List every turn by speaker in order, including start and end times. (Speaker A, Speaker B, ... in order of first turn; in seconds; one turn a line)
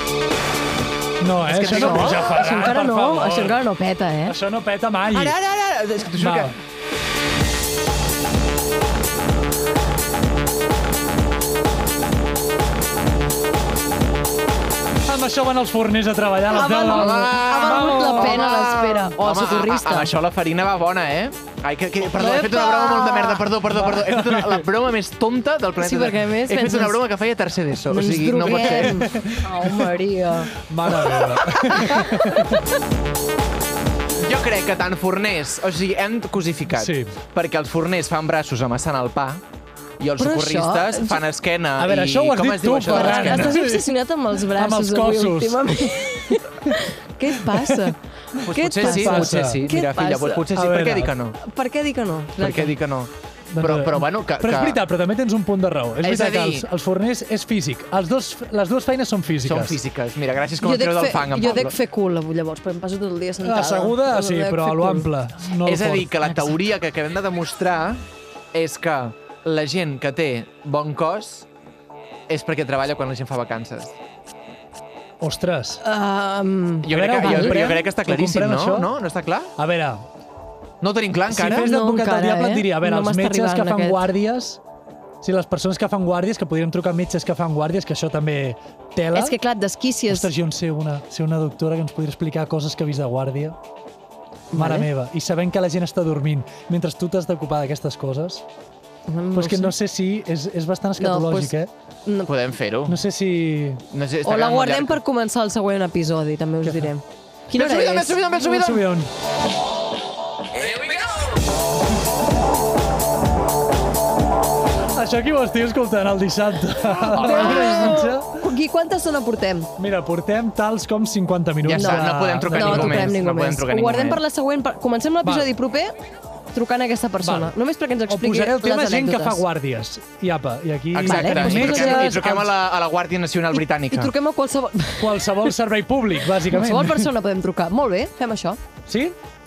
Speaker A: 1.2-3.6
Speaker B: 1.4-2.3
Speaker C: 1.6-4.4
Speaker A: 4.3-5.3
Speaker B: 5.1-6.5
Speaker A: 6.2-6.5
Speaker A: 15.1-18.4
Speaker C: 16.5-20.1
Speaker B: 16.8-29.0
Speaker C: 22.1-23.5
Speaker A: 23.9-24.6
Speaker C: 25.8-27.0
Speaker C: 27.9-30.5
Speaker A: 28.8-29.9
Speaker A: 30.6-32.6
Speaker B: 31.0-32.0
Speaker C: 31.9-32.5
Speaker B: 34.2-39.4
Speaker A: 36.8-37.1
Speaker B: 40.0-43.6
Speaker C: 40.2-41.2
Speaker A: 41.8-46.4
Speaker C: 42.9-50.5
Speaker A: 47.4-47.9
Speaker B: 48.4-51.4
Speaker A: 48.7-49.6
Speaker A: 50.5-51.1
Speaker C: 51.4-52.8
Speaker B: 52.4-54.8
Speaker A: 53.5-59.8
Speaker B: 56.0-56.7
Speaker B: 59.4-61.8
Speaker C: 60.6-65.1
Speaker A: 63.4-66.1
Speaker B: 65.6-71.5
Speaker B: 72.3-74.0
Speaker A: 75.2-75.8
Speaker C: 75.8-77.8
Speaker B: 76.8-79.5
Speaker A: 76.9-78.9
Speaker A: 79.6-80.0
Speaker B: 80.8-81.7
Speaker A: 81.3-84.6
Speaker C: 81.4-84.1
Speaker A: 85.2-89.4
Speaker C: 89.1-90.3
Speaker A: 90.1-93.6
Speaker C: 94.5-94.9
Speaker A: 94.5-98.4
Speaker C: 99.1-99.8
Speaker A: 99.3-101.7
Speaker C: 101.0-102.3
Speaker B: 102.2-103.0
Speaker A: 102.9-103.8
Speaker B: 103.9-105.0
Speaker C: 104.2-108.3
Speaker A: 106.6-106.9
Speaker B: 107.5-108.9
Speaker A: 108.4-109.1
Speaker A: 115.0-118.4
Speaker C: 117.1-119.7
Speaker B: 117.3-117.7
Speaker A: 119.8-123.2
Speaker B: 121.6-124.2
Speaker C: 121.7-125.9
Speaker A: 125.2-125.5
Speaker C: 126.5-129.4
Speaker A: 127.2-127.6
Speaker A: 128.1-132.5
Speaker B: 130.9-134.1
Speaker C: 131.0-132.1
Speaker C: 133.9-135.6
Speaker A: 135.0-137.1
Speaker C: 136.4-138.6
Speaker A: 138.9-139.2